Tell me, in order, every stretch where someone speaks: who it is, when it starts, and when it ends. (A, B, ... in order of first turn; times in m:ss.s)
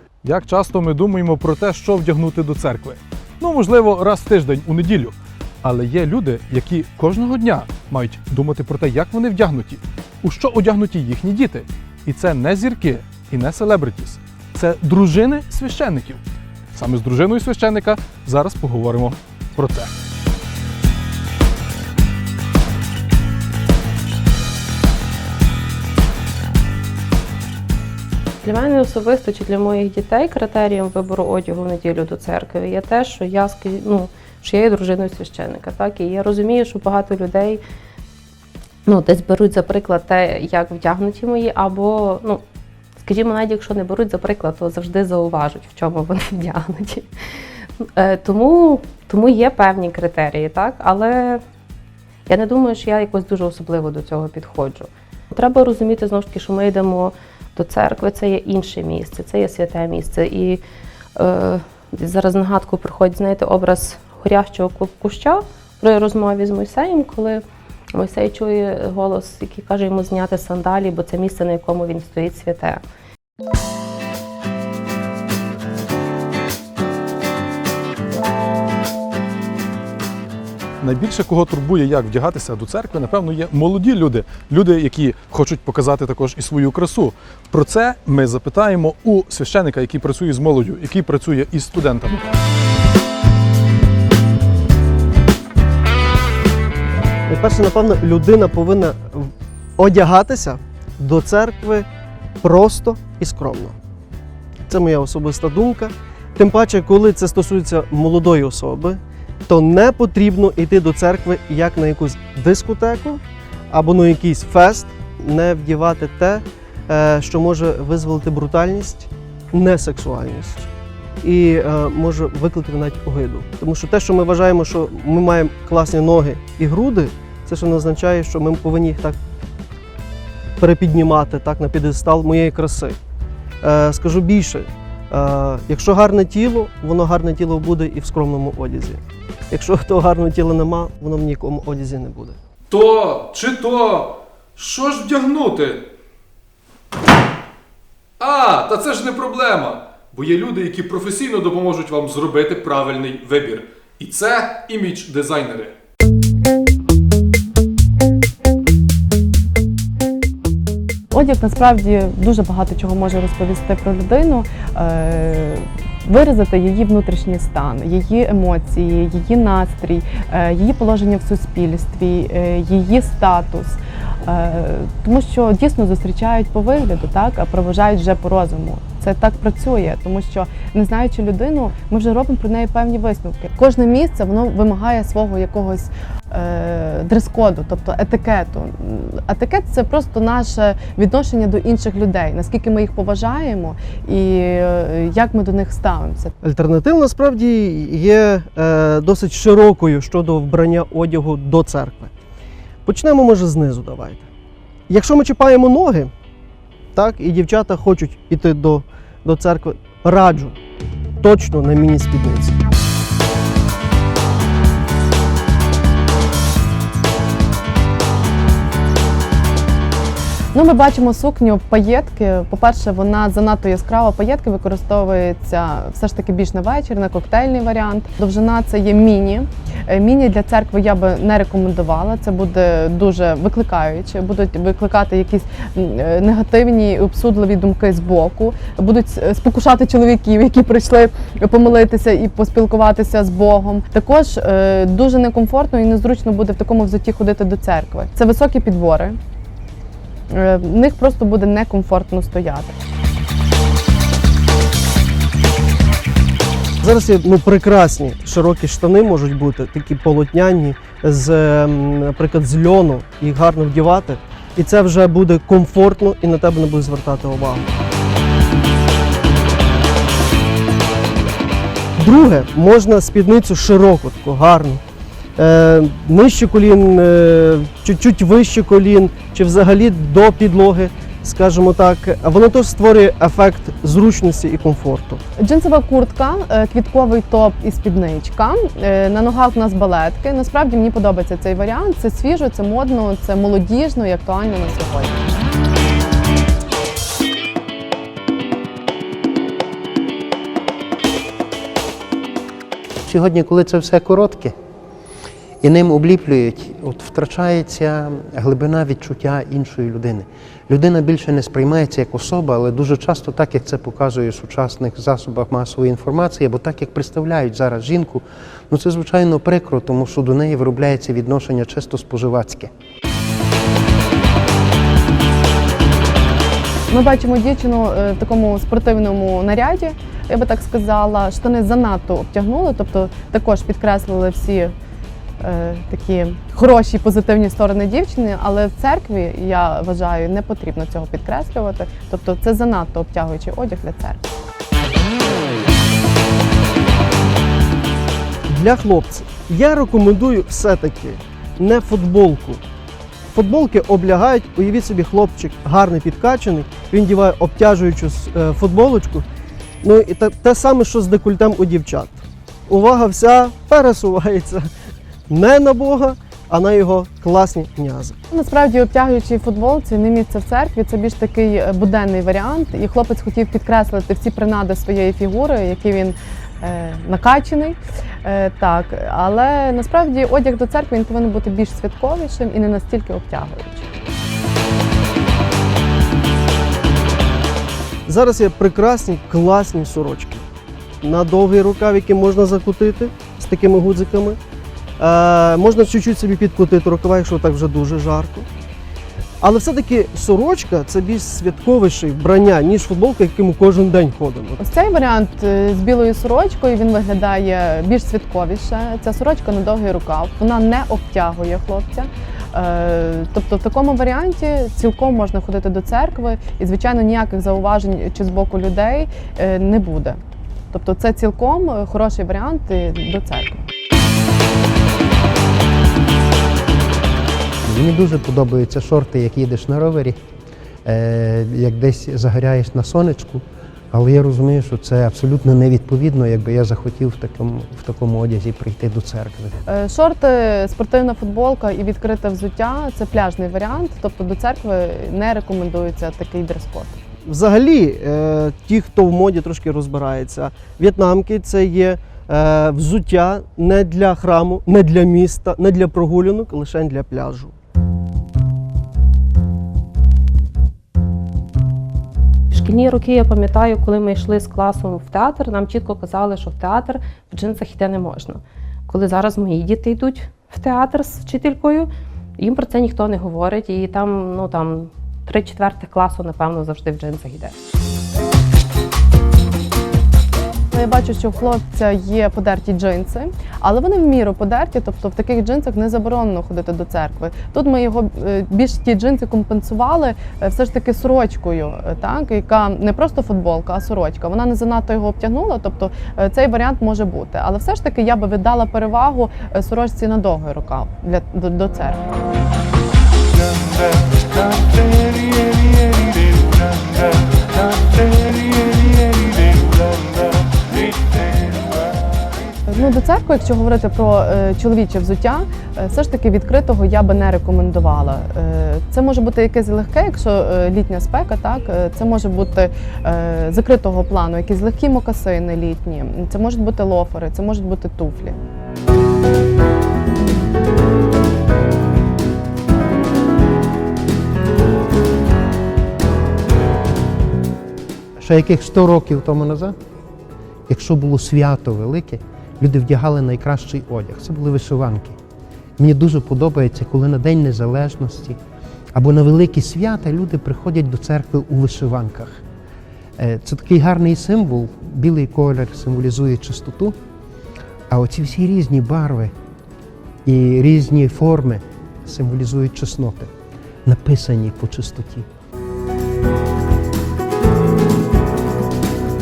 0:00.2-0:16.2 A
0:16.7-0:19.9 A
0:28.4-0:37.6 B
0:38.8-0:42.4 B
0:43.0-0:47.1 B
0:47.8-0:51.4 B
0:52.3-1:00.6 B
1:01.2-1:07.4 B
1:07.9-1:12.8 B
1:20.8-1:32.3 A
1:37.3-1:41.9 C
1:42.4-1:43.8 C
1:44.7-2:00.7 C
2:01.2-2:09.2 C
2:10.6-2:13.0 C
2:13.6-2:22.4 C
2:22.7-2:25.8 A
2:28.2-2:35.7 A
2:41.1-3:16.3 D
3:16.4-3:22.1 C
3:22.8-3:24.3 C
3:24.9-3:26.1 C
3:26.9-3:30.6 C
3:31.2-3:32.6 C
3:40.5-4:09.2 D
4:10.3-4:12.7 D
4:16.8-4:27.7 C
4:32.0-4:34.8 C
4:35.4-4:45.2 C
4:45.4-4:55.4 D
5:03.0-5:04.5 E
5:05.6-5:22.7 E
5:26.9-5:34.7 D
5:35.4-5:44.3 D
5:48.5-5:52.6 C
5:53.3-5:59.2 C
5:59.8-6:04.6 C
6:05.3-6:08.2 C
6:08.3-6:23.9 D
6:28.0-6:30.4 C
6:31.0-6:34.4 C
6:35.0-6:38.5 C
6:39.4-6:44.6 C
6:44.6-7:00.2 D
7:00.7-7:03.7 D
7:07.6-7:10.2 E
7:10.8-7:19.6 E
7:19.6-7:27.0 D
7:27.2-7:37.5 C
7:42.5-7:57.5 B
8:00.7-8:22.1 D
8:32.7-8:48.4 D
8:58.2-8:59.7 E
9:00.7-9:05.2 E
9:05.8-9:08.4 E
9:08.9-9:12.4 E
9:13.2-9:16.9 E
9:17.9-9:19.3 E
9:20.2-9:23.3 E
9:23.8-9:25.2 E